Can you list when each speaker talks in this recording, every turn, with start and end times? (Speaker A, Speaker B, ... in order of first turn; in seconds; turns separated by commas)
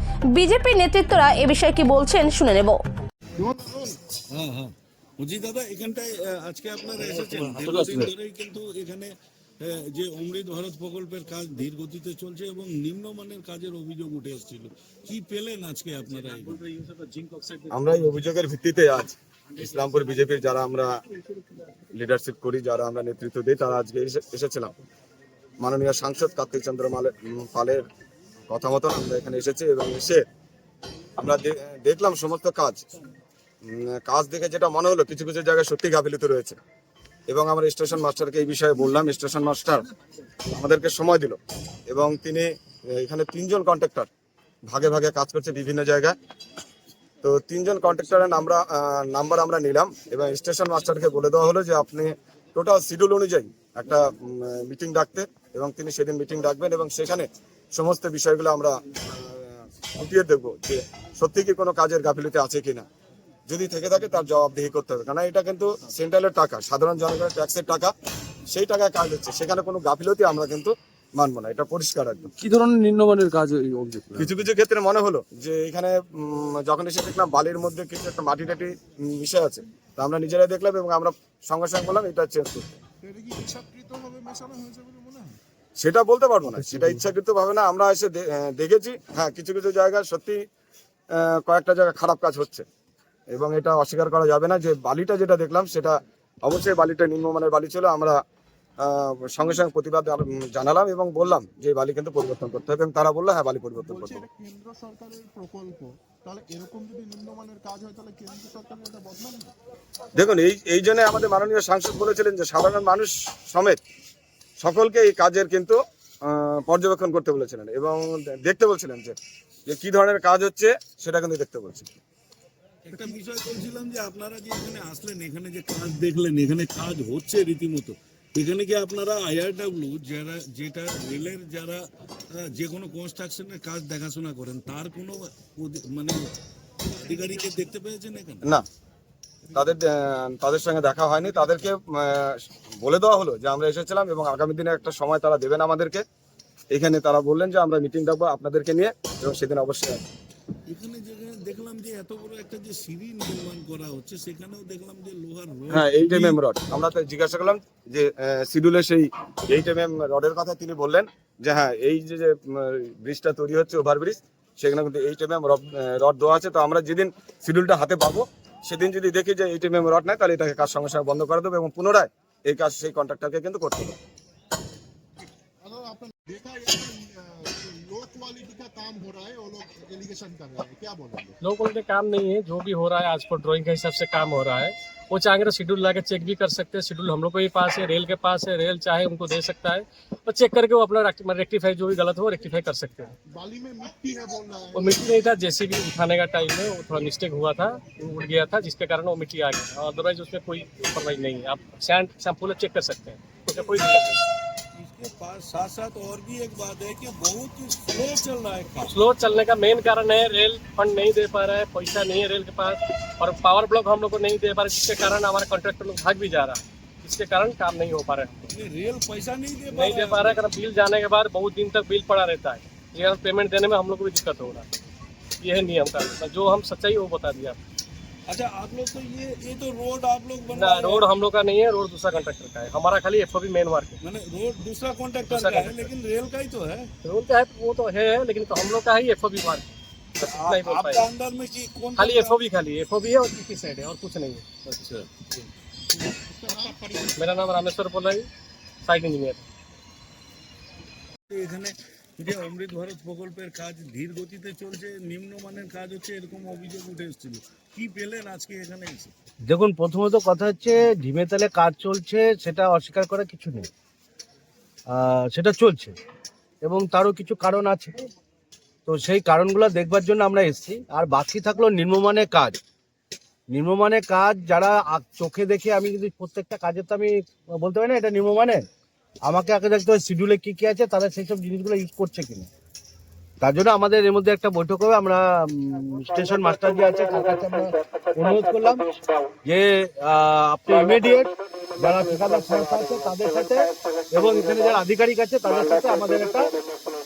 Speaker A: 0.4-2.7, Speaker B: 3.4-3.9, Speaker C: 4.3-16.6, Speaker D: 7.2-8.1, Speaker E: 17.7-20.9, Speaker E: 21.9-24.7, Speaker E: 25.6-27.8, Speaker E: 28.5-30.2, Speaker E: 31.2-32.9, Speaker E: 33.6-36.6, Speaker E: 37.3-39.9, Speaker E: 40.5-44.1, Speaker E: 44.7-46.1, Speaker E: 47.2-62.9, Speaker E: 63.5-67.9, Speaker E: 68.5-72.3, Speaker D: 72.4-74.3, Speaker E: 74.1-82.8, Speaker B: 83.0-85.3, Speaker E: 85.8-90.4, Speaker E: 91.1-92.7, Speaker E: 93.3-98.2, Speaker E: 98.8-104.2, Speaker B: 103.8-109.5, Speaker E: 110.2-113.8, Speaker E: 114.6-119.2, Speaker E: 119.7-121.9, Speaker C: 122.8-131.8, Speaker C: 132.3-136.2, Speaker C: 136.9-138.4, Speaker E: 139.5-146.0, Speaker E: 146.7-150.0, Speaker C: 150.7-156.4, Speaker E: 155.7-174.0, Speaker B: 175.2-181.3, Speaker F: 181.4-193.1, Speaker B: 193.3-195.1, Speaker F: 194.7-204.2, Speaker C: 203.5-204.2, Speaker C: 204.7-208.9, Speaker F: 208.9-218.3, Speaker C: 218.5-220.4, Speaker F: 219.7-224.7, Speaker F: 225.4-227.6, Speaker C: 228.3-231.1, Speaker F: 230.5-234.0, Speaker C: 234.0-236.9, Speaker F: 235.3-235.9, Speaker F: 237.0-239.6, Speaker F: 240.2-241.0, Speaker C: 240.2-242.4, Speaker F: 242.0-245.1, Speaker B: 245.9-247.4, Speaker F: 247.2-248.3, Speaker F: 248.8-249.4, Speaker C: 251.3-259.1, Speaker G: 259.5-263.7, Speaker G: 264.9-265.9, Speaker G: 266.6-268.0, Speaker G: 268.9-272.6, Speaker G: 273.5-278.6, Speaker G: 279.2-282.5, Speaker G: 283.4-288.8, Speaker G: 289.4-296.5